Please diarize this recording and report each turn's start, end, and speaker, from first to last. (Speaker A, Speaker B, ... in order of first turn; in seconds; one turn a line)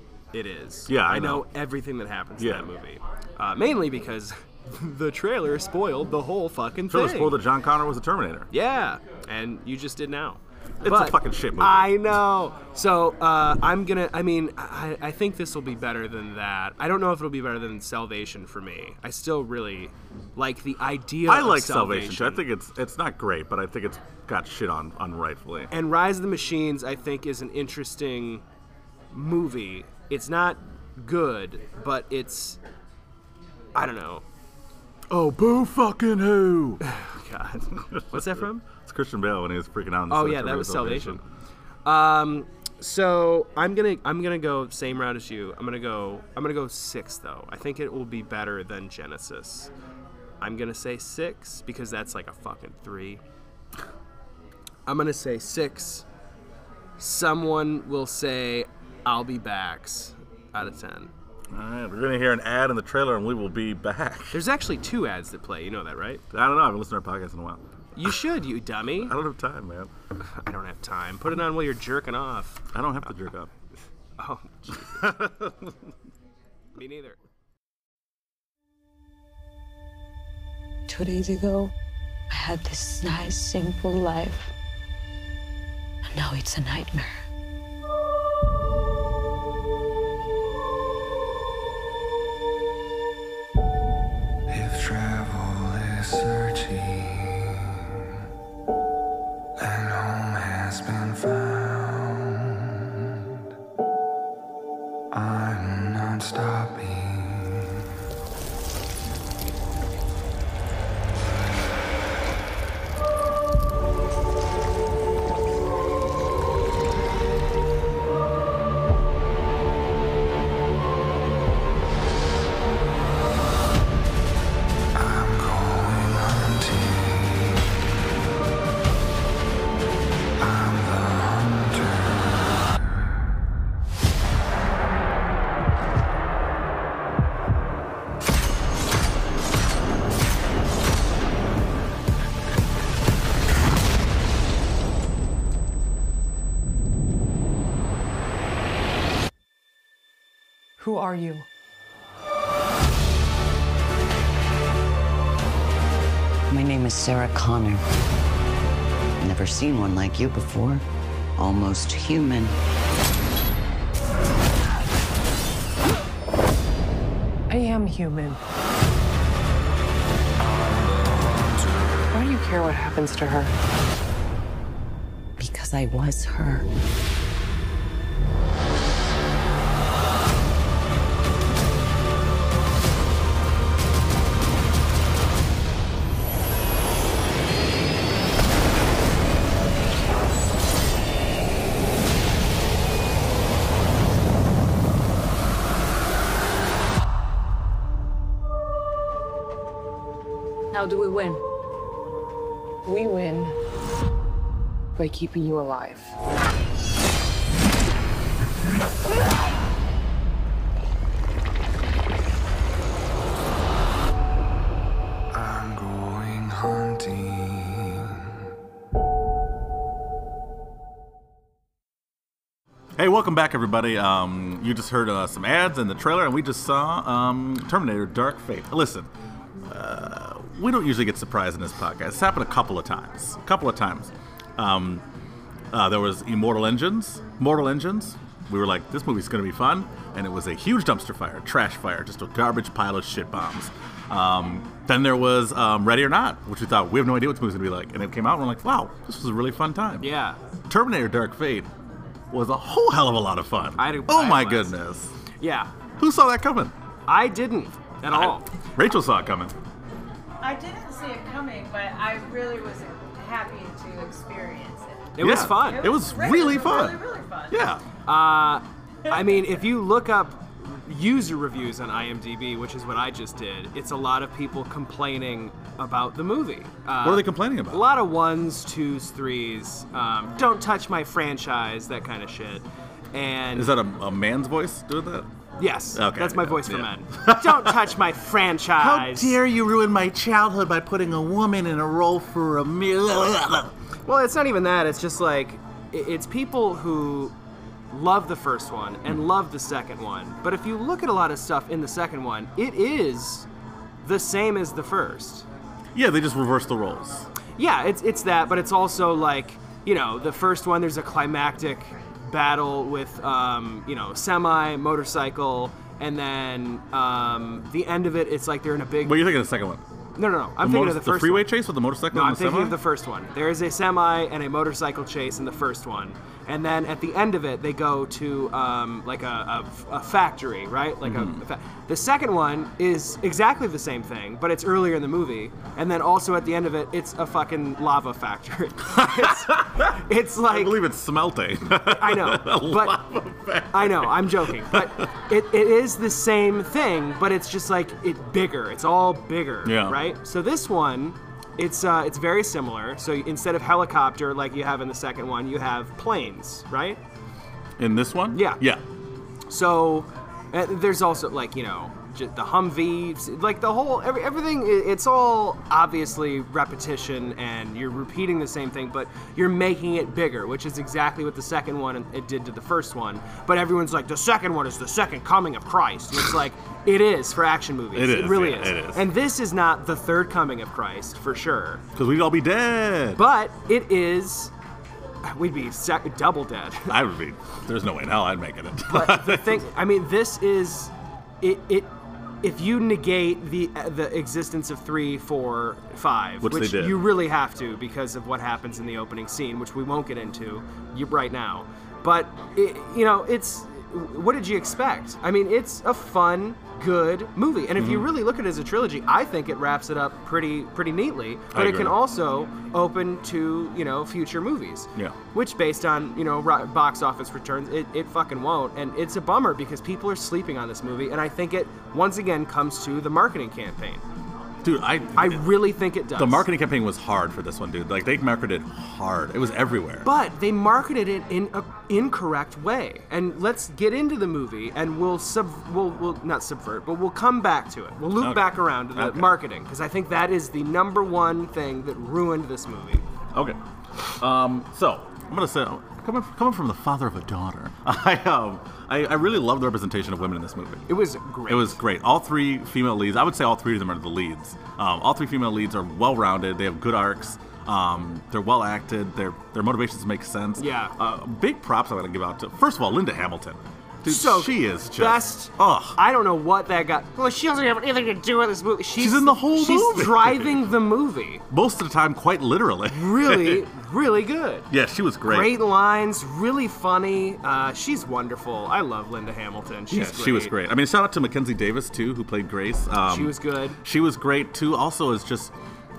Speaker A: 0.3-7.4
Speaker B: 0.9-1.5
Speaker B: 2.4-2.7
Speaker B: 6.9-8.5
Speaker A: 8.5-22.4
Speaker B: 10.8-12.1
Speaker B: 21.2-25.7
Speaker A: 25.7-28.4
Speaker A: 29.1-32.6
Speaker A: 33.8-34.2
Speaker B: 35.1-36.8
Speaker A: 36.8-38.6
Speaker B: 37.7-41.2
Speaker A: 40.1-41.2
Speaker A: 41.9-49.7
Speaker A: 50.4-53.2
Speaker A: 54.9-56.1
Speaker A: 57.0-61.1
Speaker B: 61.5-64.4
Speaker A: 64.3-66.2
Speaker B: 66.3-68.2
Speaker A: 68.0-69.2
Speaker B: 68.9-69.9
Speaker A: 70.2-72.7
Speaker B: 72.7-73.5
Speaker A: 74.2-75.2
Speaker B: 74.7-75.8
Speaker A: 76.8-77.2
Speaker C: 80.9-81.7
Speaker C: 82.3-84.5
Speaker C: 86.1-87.2
Speaker D: 94.5-98.2
Speaker D: 99.6-103.3
Speaker D: 105.1-107.9
Speaker D: 125.0-128.0
Speaker D: 130.4-132.8
Speaker E: 150.8-151.5
Speaker F: 156.5-157.8
Speaker F: 159.2-160.8
Speaker F: 161.4-162.5
Speaker E: 167.5-168.4
Speaker D: 170.4-172.0
Speaker E: 172.1-173.5
Speaker C: 175.4-176.7
Speaker C: 200.7-201.4
Speaker E: 202.8-203.6
Speaker E: 205.0-206.2
Speaker D: 215.3-218.3
Speaker B: 223.0-229.1
Speaker B: 229.7-235.0
Speaker B: 235.7-250.1
Speaker A: 250.0-250.4
Speaker B: 250.7-251.7
Speaker B: 252.3-255.1
Speaker A: 253.8-254.8
Speaker A: 255.4-255.7
Speaker B: 256.0-256.8
Speaker A: 257.1-258.5
Speaker B: 258.1-259.6
Speaker G: 260.4-267.7
Speaker A: 265.2-265.9
Speaker B: 265.2-267.8
Speaker A: 268.1-283.7
Speaker B: 277.0-277.9
Speaker B: 283.5-285.3
Speaker A: 285.6-289.4
Speaker B: 285.9-288.0
Speaker B: 288.8-293.7
Speaker A: 294.1-297.3
Speaker A: 297.9-303.5
Speaker A: 304.0-305.5
Speaker B: 305.9-307.3
Speaker A: 307.6-319.3
Speaker B: 319.0-319.8
Speaker A: 320.2-321.5
Speaker B: 320.6-322.8
Speaker A: 322.1-340.8
Speaker B: 331.0-331.4
Speaker B: 338.9-345.1
Speaker A: 341.9-343.0
Speaker A: 343.7-357.0
Speaker B: 349.6-350.0
Speaker B: 357.8-358.8
Speaker A: 358.3-358.6
Speaker A: 359.5-381.8
Speaker B: 377.9-379.1
Speaker B: 381.9-383.2
Speaker A: 383.2-384.5
Speaker A: 385.2-386.9
Speaker B: 386.9-389.6
Speaker A: 388.9-391.9
Speaker A: 392.4-424.0
Speaker B: 396.4-397.1
Speaker B: 407.8-408.1
Speaker B: 411.5-412.0
Speaker B: 424.6-430.1
Speaker A: 425.2-426.5
Speaker A: 430.0-443.0
Speaker B: 438.2-439.4
Speaker B: 443.3-450.9
Speaker A: 450.9-451.8
Speaker B: 451.5-466.0
Speaker A: 460.6-460.9
Speaker A: 464.1-471.4
Speaker B: 469.0-470.7
Speaker B: 471.5-473.6
Speaker A: 472.9-474.7
Speaker B: 474.7-475.6
Speaker A: 475.2-480.5
Speaker B: 479.9-485.5
Speaker A: 483.1-483.8